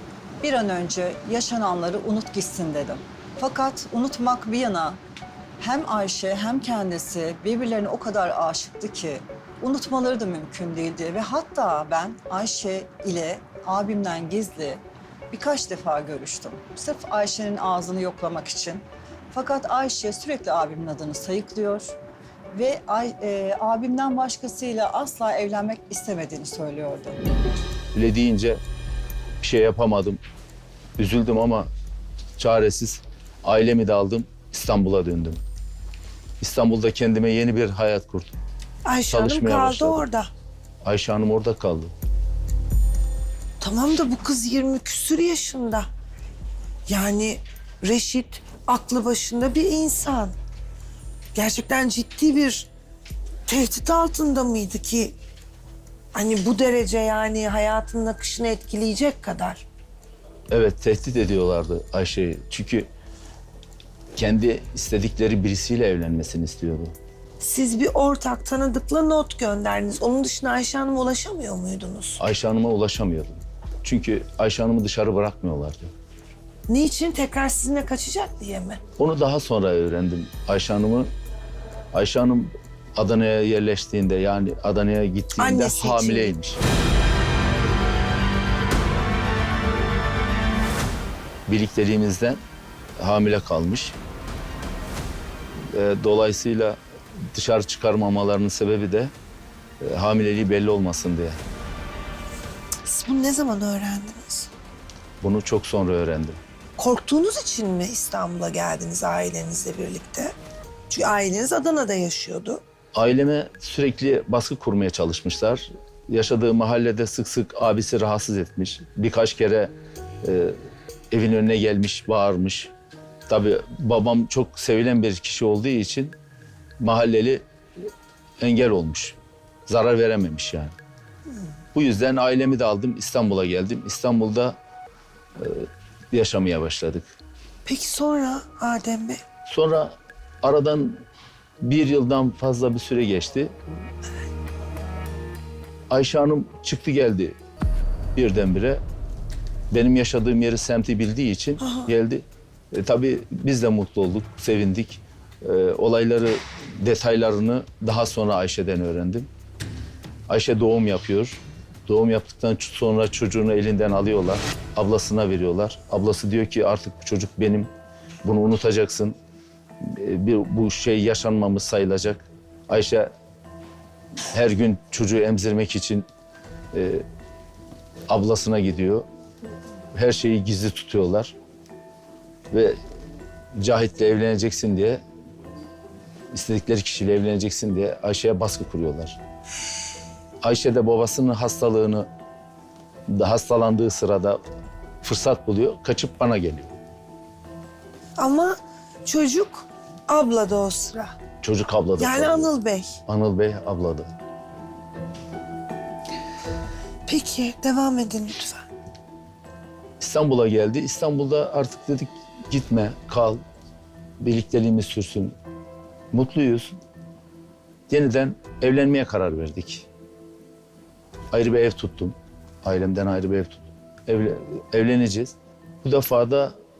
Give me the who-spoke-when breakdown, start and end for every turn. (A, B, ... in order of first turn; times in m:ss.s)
0:00.4-0:05.0 A
0:05.6-0:21.9 A
0:22.5-0:27.2 A
0:27.9-0:28.6 B
0:29.4-0:30.2 B
0:31.0-0:31.7 B
0:32.4-0:35.4 B
0:36.4-0:38.4 B
0:38.8-0:40.3 C
0:39.1-0:40.0 B
0:40.8-0:41.9 B
0:43.6-0:45.9 C
0:46.9-0:50.3 C
0:51.3-0:52.7 C
0:53.5-0:55.2 C
0:56.1-0:59.6 C
1:00.5-1:02.9 B
1:04.1-1:06.9 B
1:07.4-1:12.2 C
1:12.2-1:15.9 B
1:16.7-1:18.8 C
1:19.0-1:21.1 B
1:21.9-1:26.6 B
1:25.4-1:26.3 C
1:31.5-1:32.4 B
1:33.0-1:34.0 B
1:35.7-1:36.8 B
1:37.3-1:39.1 B
1:39.8-1:41.4 B
1:42.8-1:44.5 C
1:45.2-1:46.4 B
1:46.8-1:50.3 C
1:50.9-1:52.6 C
1:52.9-2:00.6 B
2:01.1-2:02.7 B
2:03.3-2:06.1 B
2:06.8-2:07.4 B
2:08.4-2:10.7 B
2:11.7-2:14.6 B
2:15.4-2:17.1 B
2:17.6-2:19.2 C
2:19.4-2:21.0 B
2:21.6-2:23.5 B
2:25.9-2:27.4 B
2:28.1-2:28.8 B
2:29.7-2:39.3 B
2:31.6-2:31.9 C
2:40.3-2:47.7 B
2:48.2-2:49.2 B
2:49.8-2:53.1 B
2:54.3-2:56.0 B
2:56.7-2:57.0 B
2:58.1-2:59.0 B
2:59.9-3:01.3 B
3:02.5-3:02.8 B
3:03.6-3:05.0 B
3:06.3-3:09.2 B
3:10.4-3:12.1 B
3:13.1-3:14.4 B
3:15.0-3:16.7 B
3:18.2-3:21.1 C
3:21.4-3:22.5 B
3:22.0-3:22.9 C
3:23.1-3:24.1 B
3:27.1-3:28.7 C
3:30.0-3:33.4 B
3:34.2-3:35.4 B
3:36.1-3:36.8 B
3:37.9-3:39.9 B
3:41.3-3:46.5 B